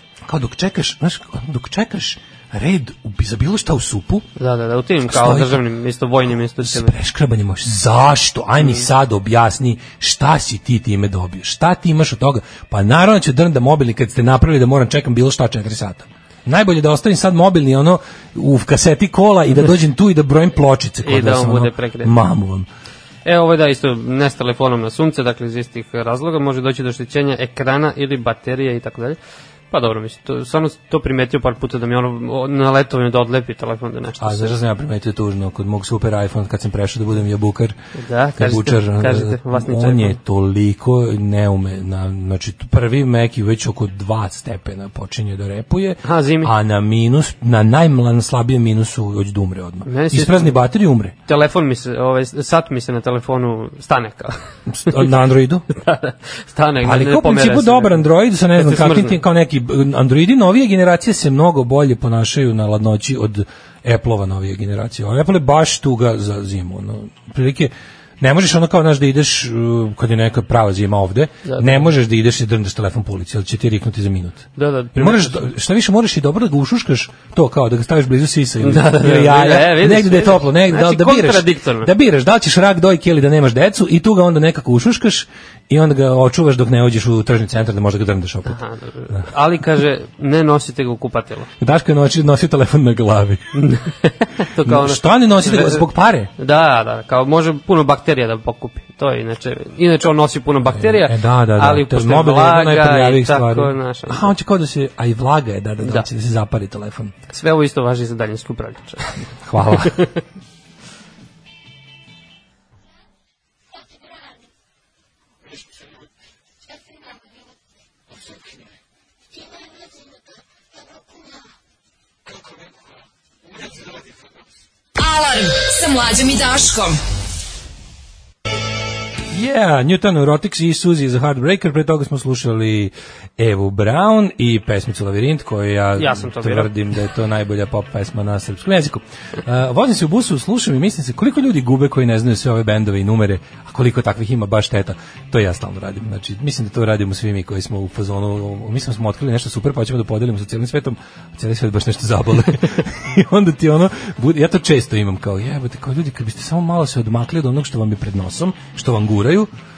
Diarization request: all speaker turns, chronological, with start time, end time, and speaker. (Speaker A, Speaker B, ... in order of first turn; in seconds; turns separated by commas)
Speaker A: 0.2-4.3, Speaker B: 4.4-6.9, Speaker A: 5.0-5.6, Speaker A: 6.6-22.7, Speaker B: 21.0-22.2, Speaker B: 23.2-29.2, Speaker B: 29.7-34.5, Speaker A: 34.2-37.7, Speaker B: 38.0-40.2, Speaker A: 38.4-51.1, Speaker B: 46.0-46.5, Speaker B: 49.8-50.6, Speaker B: 51.3-55.1, Speaker A: 54.7-55.6, Speaker B: 55.7-58.0, Speaker A: 56.8-89.3, Speaker B: 58.5-59.2, Speaker B: 71.4-71.9, Speaker B: 74.6-75.5, Speaker B: 78.6-81.9, Speaker B: 88.5-91.5, Speaker A: 91.6-93.5, Speaker B: 93.5-95.8, Speaker A: 94.6-96.3, Speaker B: 96.4-104.2, Speaker A: 100.7-107.1, Speaker B: 105.8-106.1, Speaker B: 107.3-110.2, Speaker A: 109.4-110.0, Speaker C: 125.0-127.0, Speaker A: 129.3-159.5, Speaker B: 136.0-136.7